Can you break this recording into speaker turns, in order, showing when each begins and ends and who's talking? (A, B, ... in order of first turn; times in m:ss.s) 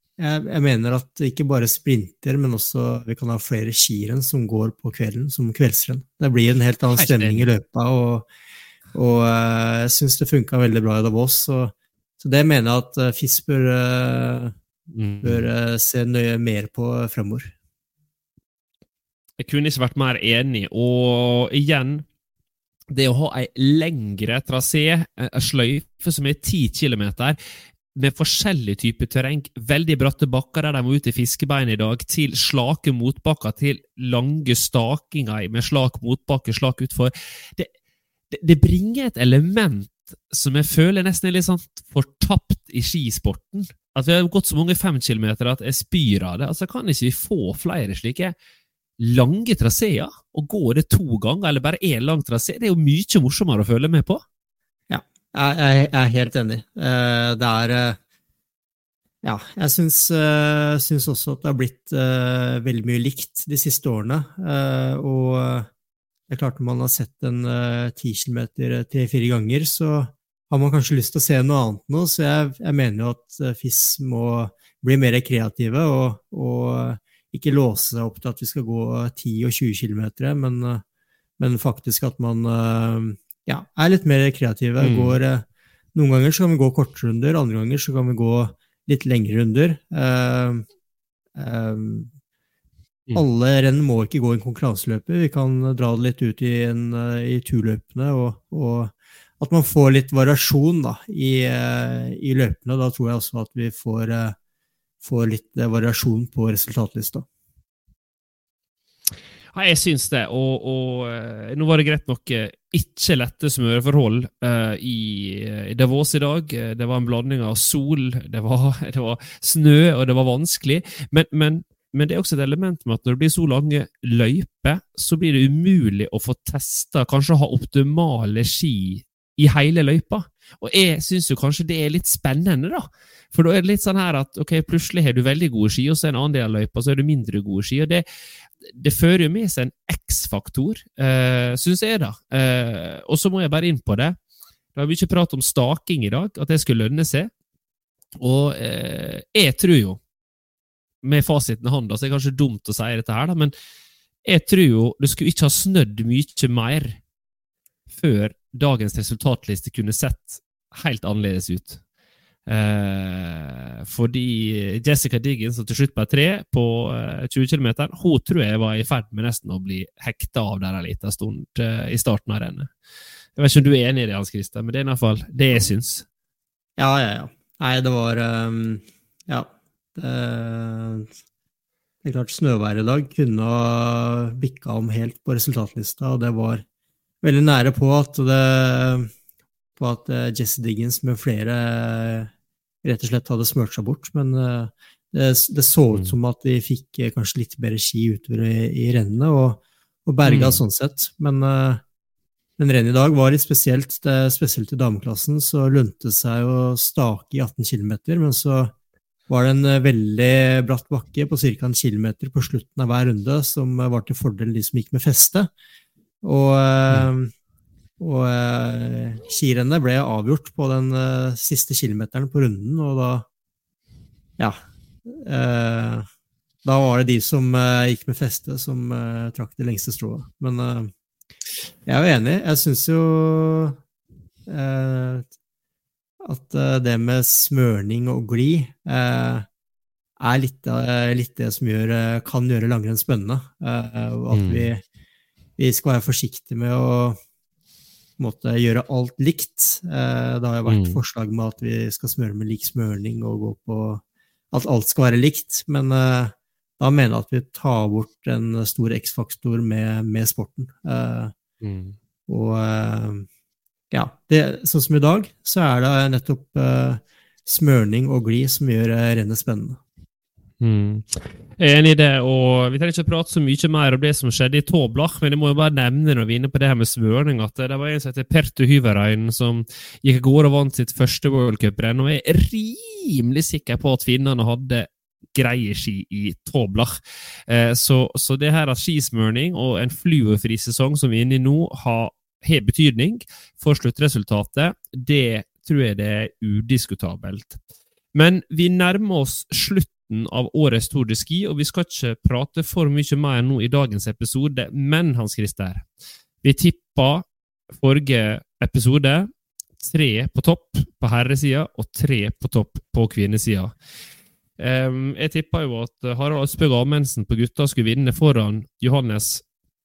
0:00.2-0:08.3 A
0:06.9-0:07.5 B
0:08.9-0:14.5 A
0:14.9-0:15.5 B
0:15.2-0:17.5 A
0:19.4-0:22.0 B
0:22.9-0:27.4 B
0:28.0-0:37.7 B
0:38.3-0:48.4 B
0:49.0-0:54.2 B
0:54.9-0:58.0 A
0:59.2-1:05.7 A
1:06.3-1:20.8 A
1:21.4-1:30.7 A
1:24.8-1:25.2 B
1:31.4-1:32.1 A
1:33.2-1:44.4 A
1:45.0-1:47.3 A
1:49.5-2:18.0 B
2:18.6-2:24.2 B
2:24.8-2:27.3 B
2:28.2-2:30.0 B
2:31.0-2:33.5 B
2:34.2-2:37.0 B
2:37.9-2:41.8 B
2:42.5-2:52.7 B
2:53.4-2:56.0 B
2:56.8-3:01.1 A
3:02.0-3:06.6 A
3:07.2-3:09.1 A
3:09.8-3:12.3 A
3:12.8-3:21.8 A
3:20.2-3:20.6 B
3:22.6-3:28.7 A
3:29.3-3:35.5 A
3:36.2-3:37.3 A
3:38.0-3:43.2 A
3:44.4-3:46.1 A
3:46.6-3:50.9 A
3:51.9-3:53.8 A
3:54.5-3:55.3 A
3:56.2-3:59.5 A
4:00.2-4:04.8 A
4:04.3-4:04.7 B
4:05.6-4:07.2 A
4:08.2-4:21.3 A
4:10.7-4:11.0 B
4:21.6-4:22.0 B
4:22.3-4:23.3 A
4:23.9-4:29.8 A
4:30.6-4:47.0 B
4:47.5-4:57.6 B
4:58.1-5:05.9 B
5:06.4-5:09.3 B
5:09.8-5:13.8 B
5:14.6-5:19.4 B